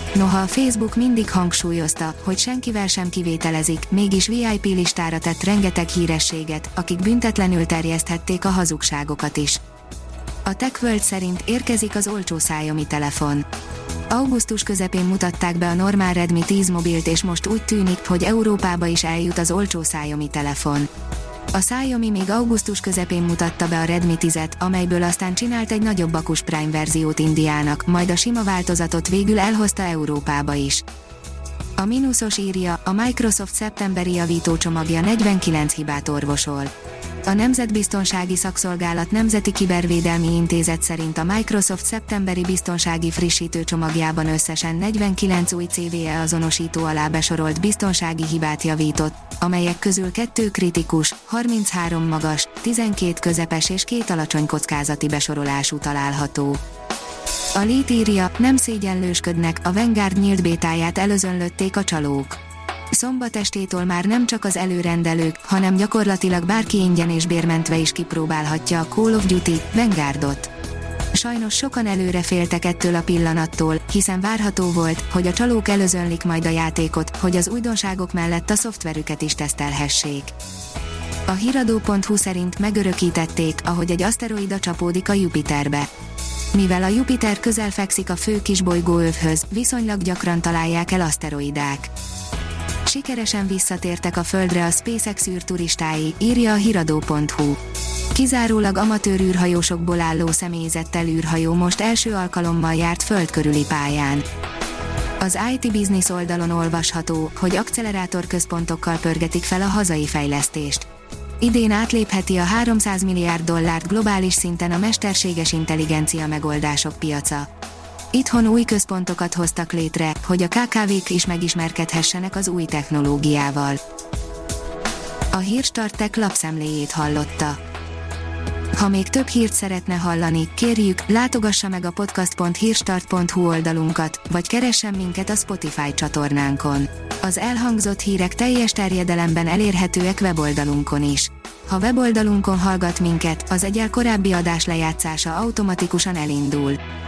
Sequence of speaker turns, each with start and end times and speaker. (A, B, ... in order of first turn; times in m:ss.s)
0:00.1-0:09.6 A
0:10.4-0:13.5 A
0:14.1-0:20.9 A
0:21.5-0:30.8 A
0:31.8-0:36.7 A
0:37.2-0:56.6 A
0:57.5-1:02.4 A
1:02.9-1:10.5 A
1:11.1-1:20.3 A
1:21.3-1:25.9 A
1:26.5-1:31.9 A
1:32.8-1:37.6 A
1:38.1-1:44.3 A
1:45.2-1:50.9 A
1:51.4-1:57.5 A
1:58.1-2:03.8 A
2:05.3-2:07.6 A
2:08.7-2:26.8 A